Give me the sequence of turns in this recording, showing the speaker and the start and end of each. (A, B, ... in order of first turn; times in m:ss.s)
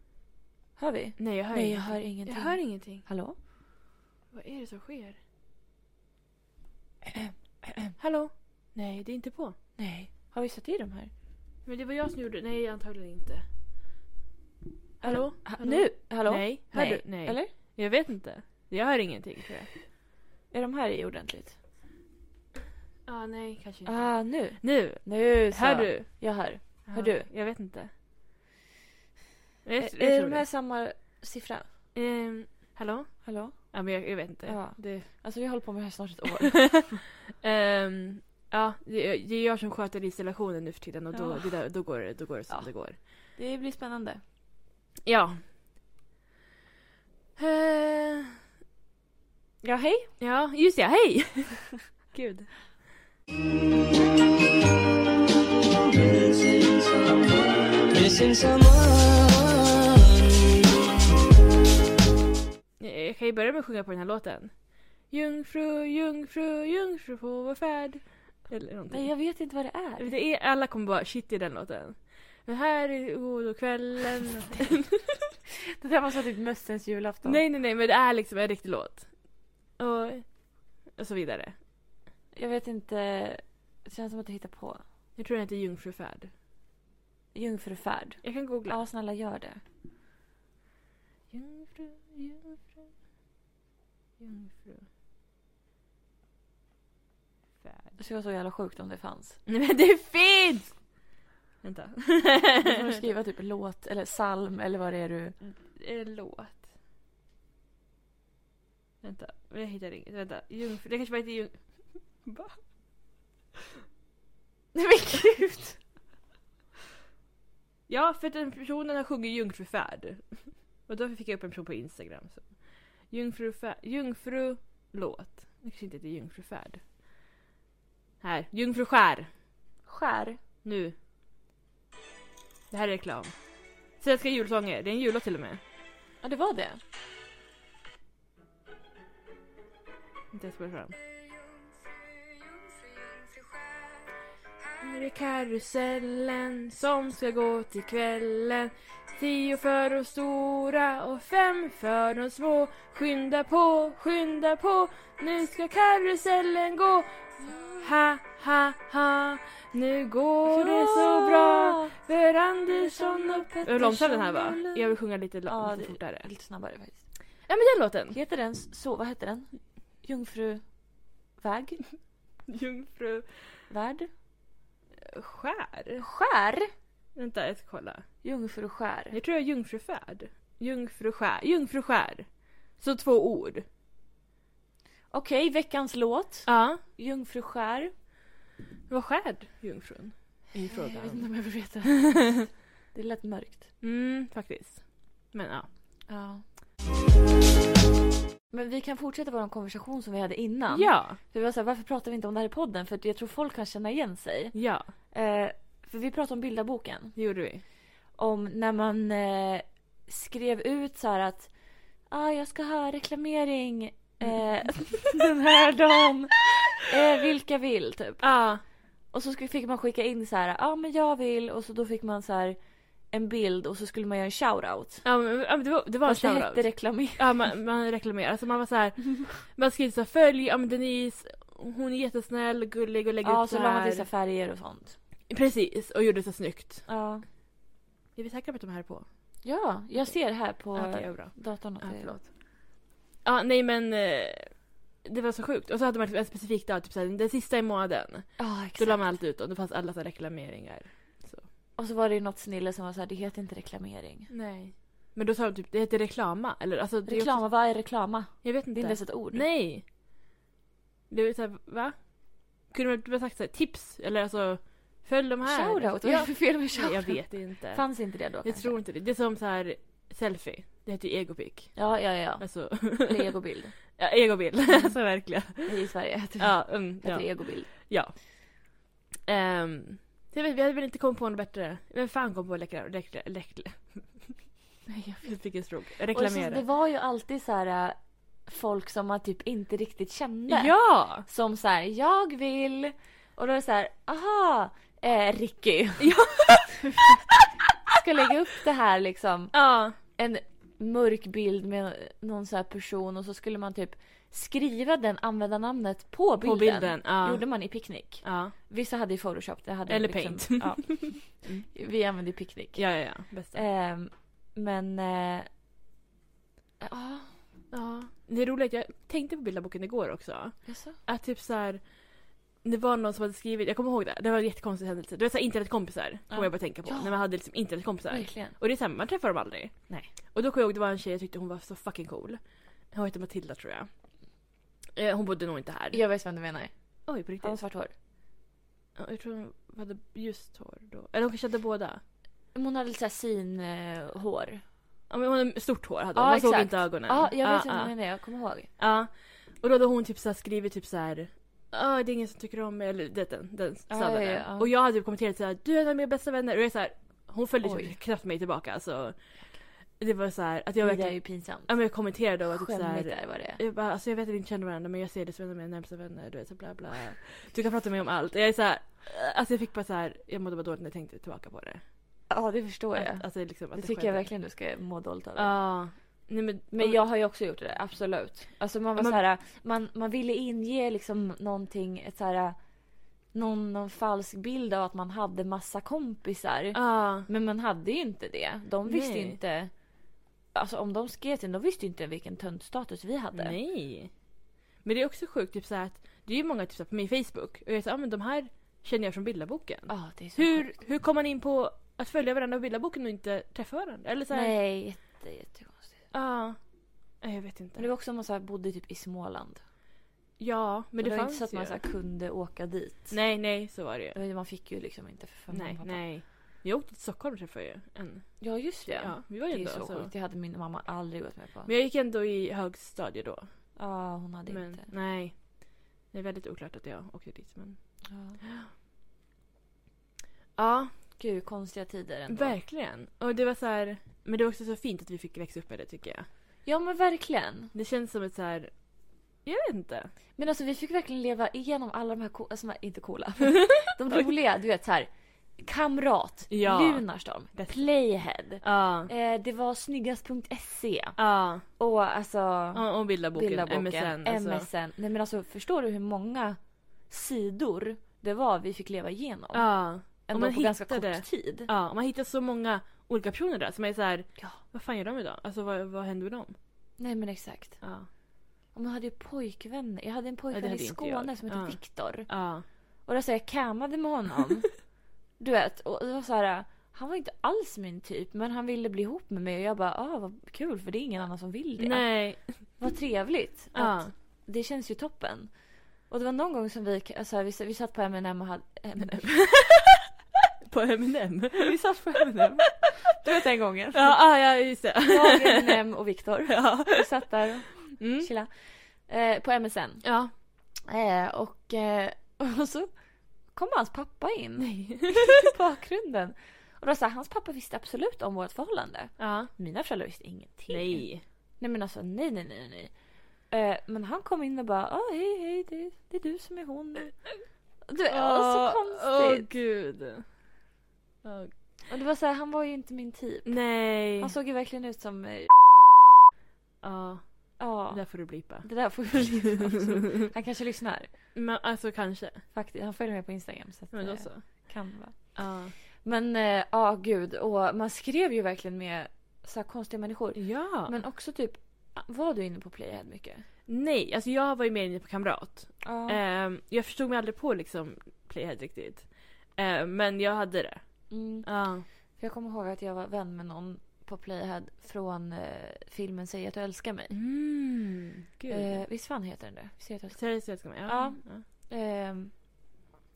0:00.8-0:03.4 A
0:01.2-0:03.0 B
0:04.3-0:05.2 B
0:07.1-0:07.9 A
0:08.0-0:09.6 B
0:09.8-0:11.1 A
0:11.7-0:13.4 B
0:15.0-0:19.7 B
0:15.0-0:17.5 A
0:20.5-0:21.6 A
0:23.0-0:26.3 B
0:23.9-0:27.3 A
0:26.9-0:27.9 B
0:29.6-0:30.4 B
0:29.8-0:31.7 A
0:31.9-0:35.1 B
0:33.2-0:33.7 A
0:34.4-0:37.0 A
0:36.5-0:43.0 B
0:41.1-0:41.6 A
0:42.5-0:44.2 A
0:45.0-0:45.4 B
0:47.4-0:48.4 B
0:49.6-0:50.1 A
0:50.2-0:52.6 B
0:55.8-1:00.9 C
1:02.8-1:09.1 B
1:08.9-1:10.1 A
1:10.0-1:15.3 B
1:15.8-1:17.4 A
1:17.2-1:19.1 B
1:19.8-1:20.3 B
1:20.9-1:21.6 B
1:22.3-1:24.8 A
1:25.2-1:26.3 B
1:27.3-1:29.6 A
1:28.2-1:28.8 B
1:31.3-1:32.9 B
1:34.2-1:34.9 B
1:37.6-1:37.9 B
1:38.0-1:39.4 A
1:39.5-1:40.8 B
1:41.6-1:43.0 B
1:42.6-1:45.4 A
1:45.5-1:46.6 B
1:49.0-1:52.6 B
1:54.7-1:55.8 A
1:57.9-2:02.5 B
2:03.1-2:06.8 B
2:08.2-2:09.3 B
2:09.9-2:10.4 A
2:10.6-2:11.0 B
2:12.7-2:13.3 B
2:14.0-2:15.6 B
2:16.2-2:16.8 A
2:20.3-2:21.0 B
2:24.8-2:46.2 B
2:40.4-2:42.0 A
2:42.8-2:44.9 A
2:45.5-2:47.0 A
2:47.5-2:48.2 B
2:48.1-2:49.5 A
2:50.0-2:50.7 A
2:51.4-2:51.8 A
2:52.5-2:53.5 B
2:53.7-2:54.1 A
2:55.0-2:56.1 B
2:56.0-2:56.7 A
2:57.2-2:58.0 B
2:58.2-2:59.2 A
2:59.1-3:02.3 B
3:02.8-3:03.6 B
3:05.1-3:07.9 A
3:06.5-3:06.8 B
3:08.9-3:11.3 B
3:10.7-3:13.7 A
3:13.8-3:15.7 B
3:16.1-3:16.4 A
3:18.5-3:24.6 A
3:20.7-3:21.2 B
3:24.5-3:24.9 B
3:25.1-3:27.2 A
3:27.2-3:27.6 B
3:28.2-3:31.5 A
3:32.1-3:38.3 A
3:38.2-3:38.6 B
3:39.1-3:42.6 A
3:43.1-3:45.0 A
3:45.0-3:54.1 B
3:46.0-3:47.4 A
3:53.2-3:55.0 A
3:55.3-3:56.9 B
3:56.9-3:57.2 A
3:58.2-3:59.1 B
3:59.4-4:02.2 A
4:00.7-4:02.3 B
4:03.2-4:11.5 B
4:08.4-4:09.2 A
4:11.8-4:14.3 A
4:14.3-4:17.5 B
4:17.1-4:19.4 A
4:18.4-4:19.8 B
4:21.1-4:22.1 B
4:22.6-4:27.9 B
4:25.4-4:28.8 A
4:28.4-4:31.9 B
4:31.8-4:33.8 A
4:32.4-4:33.3 B
4:34.0-4:35.8 B
4:35.6-4:37.7 A
4:36.4-4:38.2 B
4:39.3-4:44.4 B
4:44.9-4:45.2 A
4:45.1-4:46.6 B
4:46.1-4:57.1 A
4:50.5-4:51.2 B
4:56.0-4:57.3 B
4:57.9-5:12.8 A
4:59.5-5:00.0 B
5:06.4-5:07.4 B
5:08.2-5:08.5 B
5:09.9-5:11.7 B
5:12.8-5:13.6 B
5:13.4-5:15.5 A
5:16.8-5:17.3 A
5:17.7-5:21.9 B
5:20.6-5:21.0 A
5:22.6-5:33.9 B
5:26.3-5:27.2 A
5:28.1-5:28.5 A
5:34.9-5:36.0 B
5:35.9-5:36.7 A
5:37.1-5:37.6 B
5:37.4-5:37.9 A
5:39.0-5:42.0 B
5:42.5-5:44.6 A
5:45.1-5:47.9 B
5:46.2-5:48.7 A
5:48.8-5:59.2 B
5:53.9-5:54.7 A
5:57.6-5:57.9 A
6:00.0-6:11.8 B
6:00.8-6:01.7 A
6:02.4-6:03.6 A
6:12.3-6:15.6 A
6:12.9-6:14.3 B
6:15.4-6:17.0 B
6:16.7-6:22.6 A
6:23.3-6:29.7 A
6:26.7-6:27.3 B
6:28.8-6:29.4 B
6:30.5-6:33.6 A
6:33.3-6:34.1 B
6:34.8-6:44.5 B
6:39.9-6:40.7 A
6:44.3-6:45.9 A
6:46.1-6:46.6 B
6:47.2-6:47.8 B
6:47.8-6:49.6 A
6:50.4-6:51.8 B
6:51.0-6:53.2 A
6:53.1-6:54.2 B
6:54.1-6:56.0 A
6:55.5-7:00.1 B
6:58.4-7:01.7 A
7:01.6-7:03.5 B
7:03.8-7:04.9 A
7:04.5-7:05.4 B
7:06.1-7:08.7 B
7:08.1-7:08.4 A
7:10.6-7:10.9 B
7:11.2-7:12.6 A
7:12.3-7:16.3 B
7:16.6-7:17.7 A
7:17.7-7:18.7 B
7:19.4-7:20.1 B
7:20.4-7:31.2 A
7:23.6-7:24.3 B
7:26.5-7:27.7 B
7:28.6-7:29.1 B
7:31.2-7:31.6 B
7:31.8-7:41.7 A
7:32.7-7:34.7 B
7:39.5-7:46.5 B
7:47.0-7:47.8 A
7:47.8-7:48.1 B
7:48.7-7:52.3 A
7:50.5-7:52.6 B
7:53.1-7:54.8 A
7:55.4-8:05.5 A
8:01.8-8:02.7 B
8:03.7-8:04.1 B
8:06.1-8:09.6 A
8:09.1-8:09.8 B
8:10.6-8:11.7 B
8:11.6-8:14.2 A
8:13.9-8:15.8 B
8:15.1-8:20.0 A
8:16.5-8:17.1 B
8:18.0-8:18.3 B
8:20.0-8:20.3 B
8:20.9-8:22.9 A
8:23.5-8:31.1 A
8:24.6-8:25.5 B
8:29.2-8:29.5 B
8:30.7-8:31.2 B
8:31.6-8:32.9 A
8:33.5-8:37.2 A
8:37.9-8:39.5 A
8:38.1-8:40.3 B
8:41.2-8:41.6 B
8:41.9-8:46.1 A
8:43.5-8:44.3 B
8:46.8-8:49.4 B
8:47.6-8:51.1 A
8:51.3-8:52.4 B
8:52.5-8:55.4 A
8:53.9-8:54.5 B
8:55.4-8:55.7 B
8:56.0-9:03.4 A
9:00.4-9:00.9 B
9:03.7-9:11.8 B
9:05.8-9:06.2 A
9:11.1-9:17.1 A
9:17.1-9:18.9 B
9:18.5-9:22.3 A
9:20.1-9:21.4 B